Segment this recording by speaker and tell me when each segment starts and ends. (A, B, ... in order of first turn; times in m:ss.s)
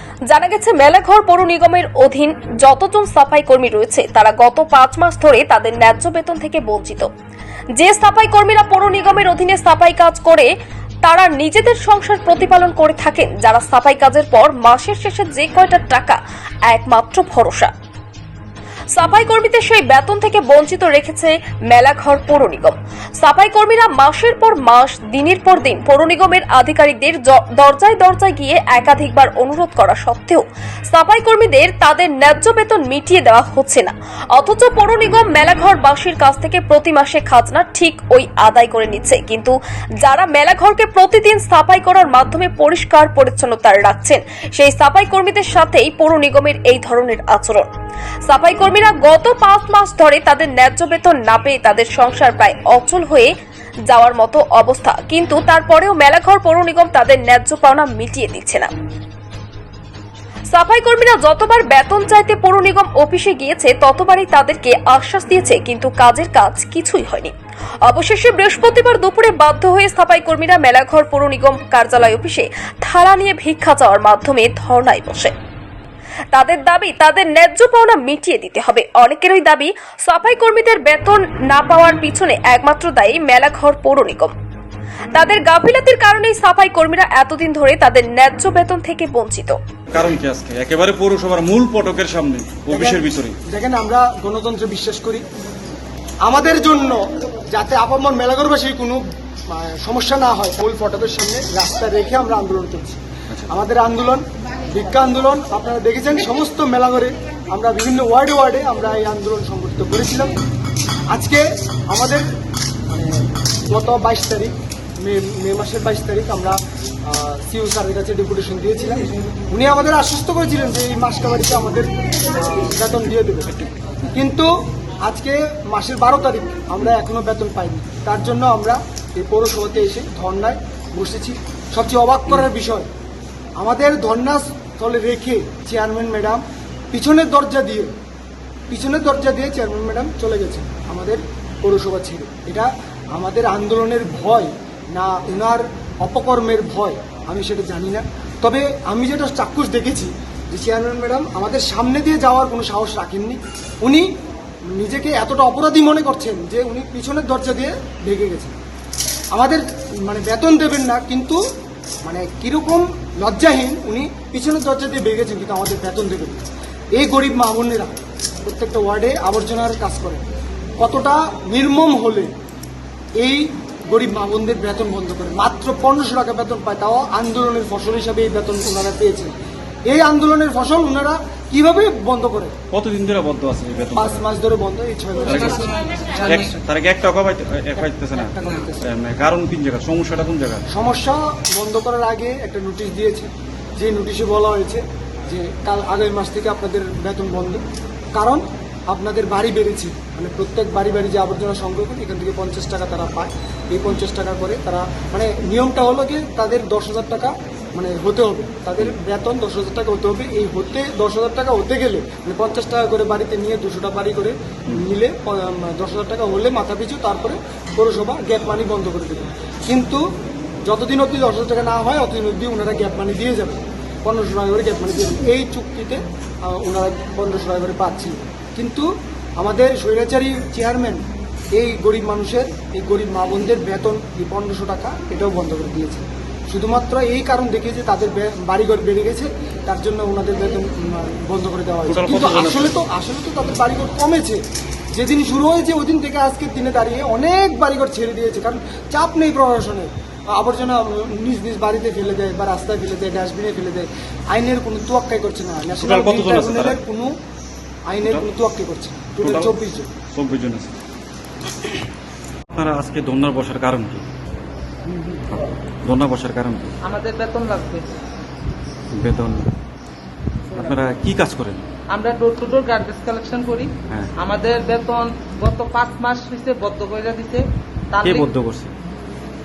0:00.3-0:07.1 A
0:07.8-0:10.5 A
0:11.0-0:17.7 A
0:19.0-0:47.7 A
0:48.3-0:53.3 A
0:53.9-0:58.7 A
1:00.5-1:07.3 A
1:07.9-1:15.3 A
1:16.3-1:24.3 A
1:25.1-1:29.6 A
1:29.9-1:33.4 B
1:32.7-1:35.2 C
1:36.2-1:50.3 C
1:51.1-1:52.3 C
1:52.9-2:04.5 C
2:05.0-2:12.9 C
2:13.6-2:16.4 C
2:16.9-2:17.9 C
2:18.7-2:34.1 C
2:34.7-2:38.6 C
2:39.3-2:41.4 C
2:42.0-2:46.4 C
2:47.0-2:50.2 C
2:50.8-2:52.3 C
2:53.2-2:59.3 C
2:59.9-3:02.6 C
3:02.7-3:04.2 B
3:04.0-3:06.6 C
3:05.3-3:06.5 D
3:05.3-3:05.6 B
3:06.2-3:10.6 B
3:07.8-3:08.8 C
3:10.7-3:17.6 C
3:18.1-3:40.0 C
3:40.7-3:48.9 C
3:49.4-3:51.0 C
3:51.6-4:04.4 C
4:01.9-4:02.7 B
4:04.9-4:17.1 C
4:15.7-4:16.8 B
4:17.9-4:19.9 C
4:19.2-4:19.5 B
4:20.1-4:20.7 B
4:22.5-4:24.1 B
4:25.8-4:26.7 B
4:26.8-4:27.9 D
4:28.9-4:29.5 B
4:30.5-4:31.6 B
4:31.9-4:38.3 D
4:38.0-4:38.7 B